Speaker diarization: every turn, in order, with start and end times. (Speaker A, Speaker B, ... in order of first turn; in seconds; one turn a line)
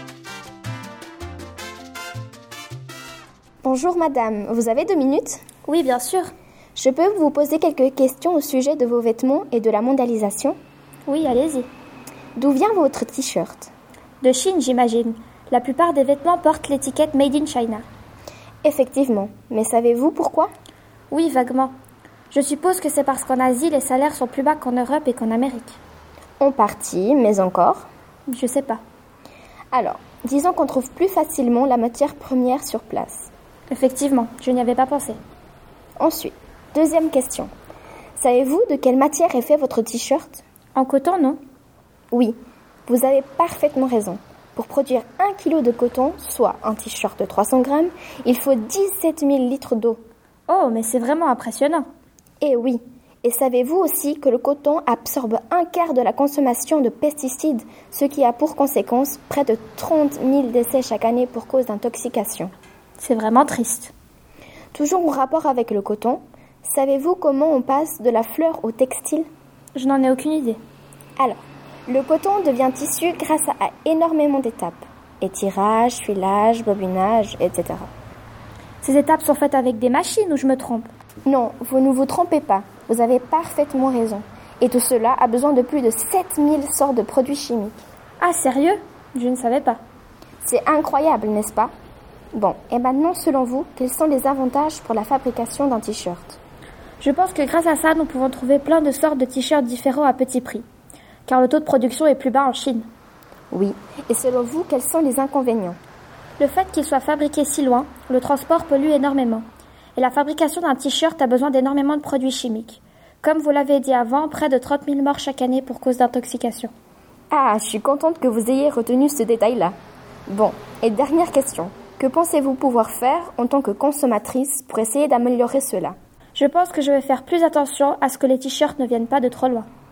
Speaker A: 3.6-5.4
Speaker B: 5.7-6.3
Speaker A: 6.8-10.6
Speaker B: 11.1-11.7
Speaker A: 12.3-13.7
Speaker B: 14.2-17.8
Speaker A: 18.6-20.5
Speaker B: 21.1-21.7
Speaker B: 22.3-25.8
Speaker A: 26.4-27.9
Speaker B: 28.3-28.8
Speaker A: 29.7-33.3
Speaker B: 33.7-35.2
Speaker A: 36.0-37.5
Speaker A: 38.2-40.4
Speaker B: 40.8-41.4
Speaker A: 42.9-50.0
Speaker B: 50.5-51.9
Speaker A: 52.4-62.5
Speaker B: 63.0-63.9
Speaker A: 64.7-69.3
Speaker B: 69.8-70.6
Speaker A: 71.2-77.9
Speaker B: 78.8-80.9
Speaker A: 81.2-87.8
Speaker B: 88.2-89.8
Speaker A: 90.4-91.7
Speaker A: 92.3-96.4
Speaker B: 97.0-100.7
Speaker B: 101.2-102.9
Speaker A: 103.5-105.8
Speaker B: 106.4-116.7
Speaker A: 117.3-119.7
Speaker A: 120.3-126.0
Speaker B: 126.3-129.7